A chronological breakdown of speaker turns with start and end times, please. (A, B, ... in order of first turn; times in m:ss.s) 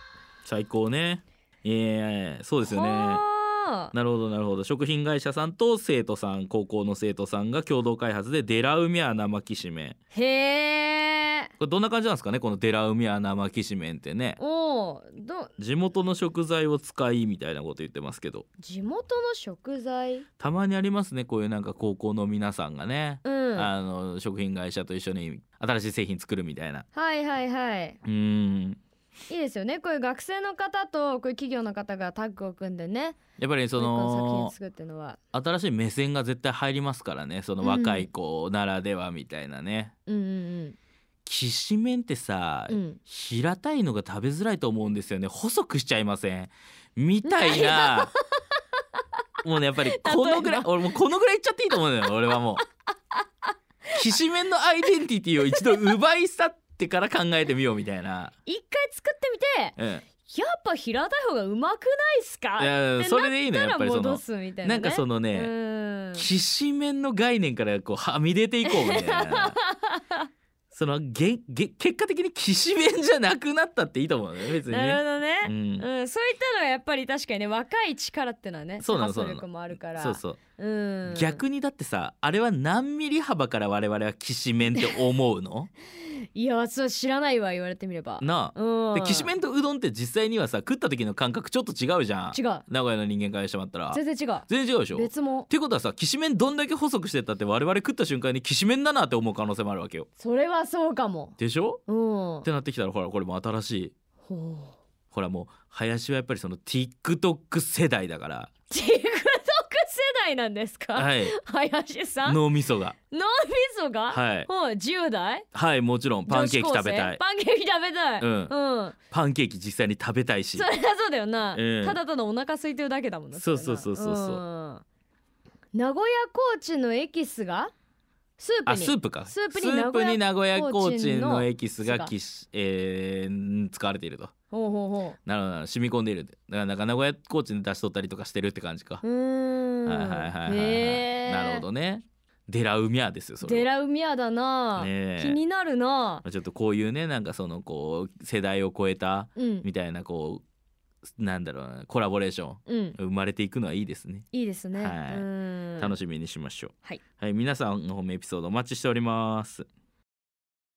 0:00.4-0:03.2 A
0:02.6-0:03.9 B
0:03.9-0:10.0 A
0:10.1-0:11.5 B
0:11.6-0:14.4 A
0:14.4-0:15.5 B
0:15.6-0:18.4 A
0:18.6-0:20.2 B
0:20.4-0:26.8 A
0:23.2-0:23.7 B
0:26.9-0:28.0 B
0:28.0-0:28.8 A
0:29.3-0:33.2 B
0:33.4-0:34.5 A
0:33.7-0:35.2 B
0:35.3-0:39.9 A
0:37.6-0:38.1 B
0:40.1-0:40.8 B
0:41.2-0:48.1 A
0:42.7-0:43.0 B
0:47.2-0:48.2 B
0:49.4-0:52.6 A
0:49.8-0:50.7 B
0:53.9-0:58.3 A
0:55.5-0:55.8 B
0:58.4-1:06.3 B
0:59.8-1:00.0 A
1:02.6-1:05.5 A
1:06.1-1:09.6 A
1:08.6-1:10.3 B
1:10.7-1:15.9 A
1:14.6-1:21.4 B
1:18.8-1:20.4 A
1:21.0-1:25.7 A
1:26.3-1:29.3 B
1:28.2-1:40.1 A
1:32.3-1:32.6 B
1:33.9-1:35.5 B
1:40.2-1:42.5 B
1:41.4-1:41.8 A
1:42.4-1:43.9 A
1:44.2-1:44.8 B
1:45.1-1:48.5 A
1:48.7-1:52.4 B
1:50.9-1:51.3 A
1:52.2-1:53.0 A
1:53.1-1:55.4 B
1:54.1-1:54.5 A
1:55.5-1:57.2 A
1:56.2-1:58.9 B
1:58.2-1:58.5 A
1:59.1-2:00.7 A
2:00.5-2:04.8 B
2:01.5-2:02.0 A
2:03.3-2:04.4 A
2:05.7-2:07.7 B
2:08.4-2:12.1 B
2:08.6-2:14.3 A
2:14.5-2:15.2 B
2:15.2-2:19.0 A
2:19.0-2:21.6 B
2:19.8-2:23.7 A
2:23.4-2:26.2 B
2:24.8-2:25.4 A
2:26.2-2:30.4 A
2:29.4-2:29.7 B
2:31.1-2:35.3 A
2:32.7-2:33.0 B
2:34.3-2:36.0 B
2:35.8-2:39.7 A